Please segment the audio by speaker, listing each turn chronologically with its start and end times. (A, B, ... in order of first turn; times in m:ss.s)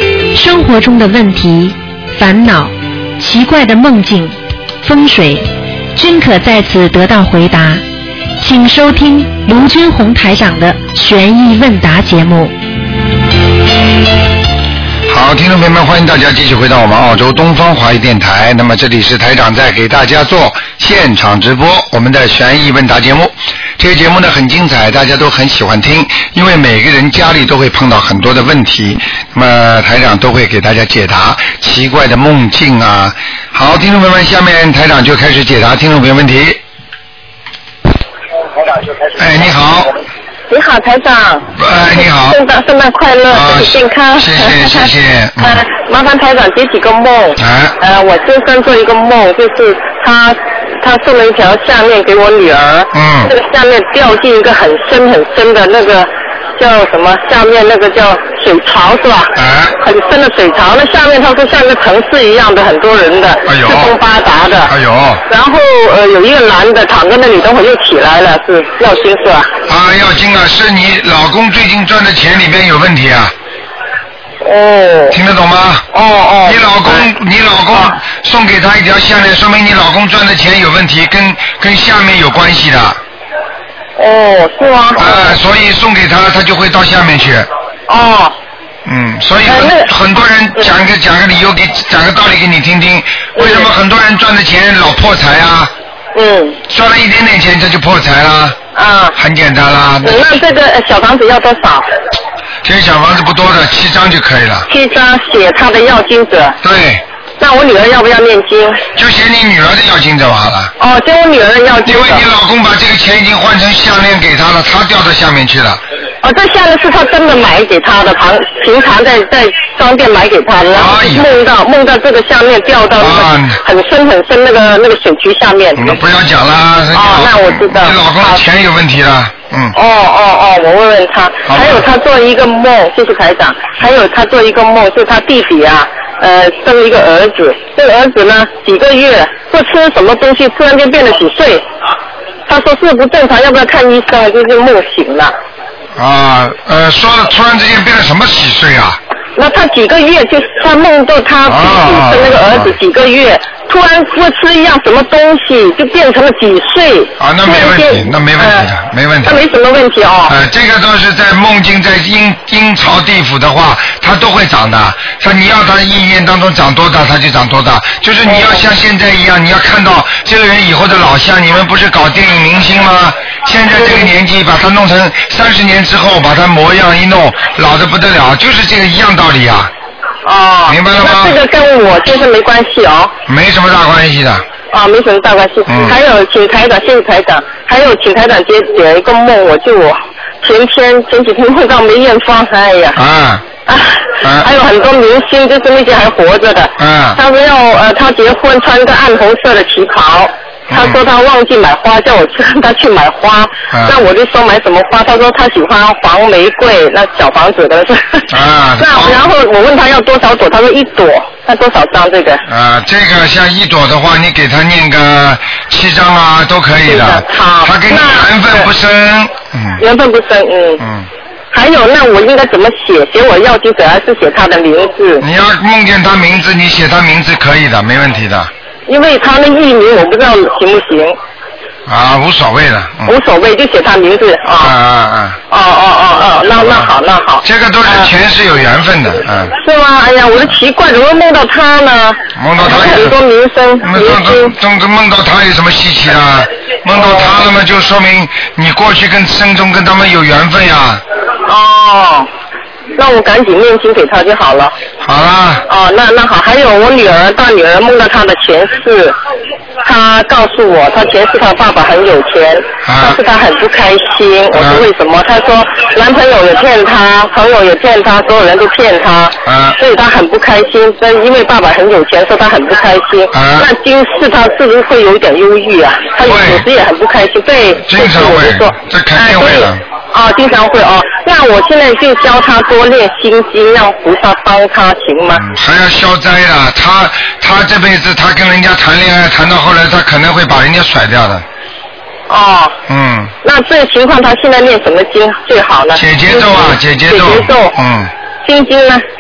0:00.3-0:07.8 A
0:08.4-0:12.6 A
0:15.1-0:36.6 B
0:39.2-0:39.9 B
0:40.5-0:41.5 C
0:41.6-0:42.4 B
0:42.2-0:44.9 C
0:43.3-0:45.7 B
0:45.4-1:04.7 C
0:47.4-0:47.8 B
0:52.9-0:53.3 B
0:59.4-0:59.8 B
1:03.5-1:04.0 B
1:04.6-1:05.2 B
1:05.3-1:09.5 C
1:09.7-1:13.3 B
1:14.4-1:15.2 C
1:15.1-1:15.9 B
1:15.9-1:17.1 C
1:16.4-1:23.0 B
1:24.0-1:25.4 C
1:25.0-1:27.5 B
1:27.9-1:28.4 C
1:28.8-1:35.7 B
1:29.5-1:29.9 C
1:33.4-1:33.7 C
1:36.2-1:36.6 C
1:36.7-1:38.6 B
1:38.8-1:39.2 C
1:39.2-1:40.4 B
1:40.0-1:41.9 C
1:42.6-1:44.7 B
1:44.7-1:46.6 C
1:46.6-1:47.0 B
1:47.4-1:48.8 C
1:49.0-1:50.7 B
1:50.8-1:52.2 C
1:51.8-1:55.8 B
1:56.2-2:06.0 C
2:00.7-2:01.3 B
2:03.0-2:03.6 B
2:05.8-2:09.8 B
2:06.9-2:08.4 C
2:09.7-2:21.6 C
2:11.4-2:11.9 B
2:22.5-2:25.4 C
2:26.0-2:29.0 B
2:29.4-2:38.7 C
2:31.4-2:32.7 B
2:37.2-2:39.4 B
2:39.2-2:40.3 C
2:40.3-2:59.7 B
2:48.3-2:48.6 C
2:53.8-2:54.1 C
3:00.2-3:03.1 C
3:00.7-3:01.4 B
3:03.3-3:04.4 B
3:04.7-3:13.0 C
3:05.7-3:06.0 B
3:13.0-3:13.4 B
3:13.7-3:32.4 C
3:14.2-3:14.5 B
3:16.8-3:17.2 B
3:20.7-3:21.0 B
3:23.7-3:24.0 B
3:28.3-3:29.3 B
3:32.5-3:39.8 B
3:36.9-3:38.7 C
3:39.8-3:40.8 C
3:40.8-3:41.1 B
3:41.5-3:45.2 C
3:45.2-3:48.5 B
3:48.9-3:51.2 C
3:51.9-3:53.2 B
3:53.1-3:54.7 C
3:54.6-3:55.4 B
3:55.5-3:58.1 C
3:56.6-3:56.9 B
3:57.4-3:59.6 B
3:59.6-4:04.6 C
4:02.4-4:03.2 B
4:03.8-4:11.0 B
4:06.9-4:07.4 C
4:11.5-4:12.3 C
4:13.0-4:14.8 C
4:15.0-4:15.6 B
4:15.7-4:19.2 C
4:19.8-4:45.4 C
4:22.8-4:23.2 B
4:24.5-4:24.9 B
4:29.4-4:29.8 B
4:33.3-4:33.7 B
4:36.2-4:36.7 B
4:37.8-4:39.8 B
4:45.3-4:51.4 B
4:52.3-4:52.8 C
4:52.9-4:53.3 B
4:53.4-4:57.7 C
4:55.9-4:58.1 B
4:58.4-4:59.0 C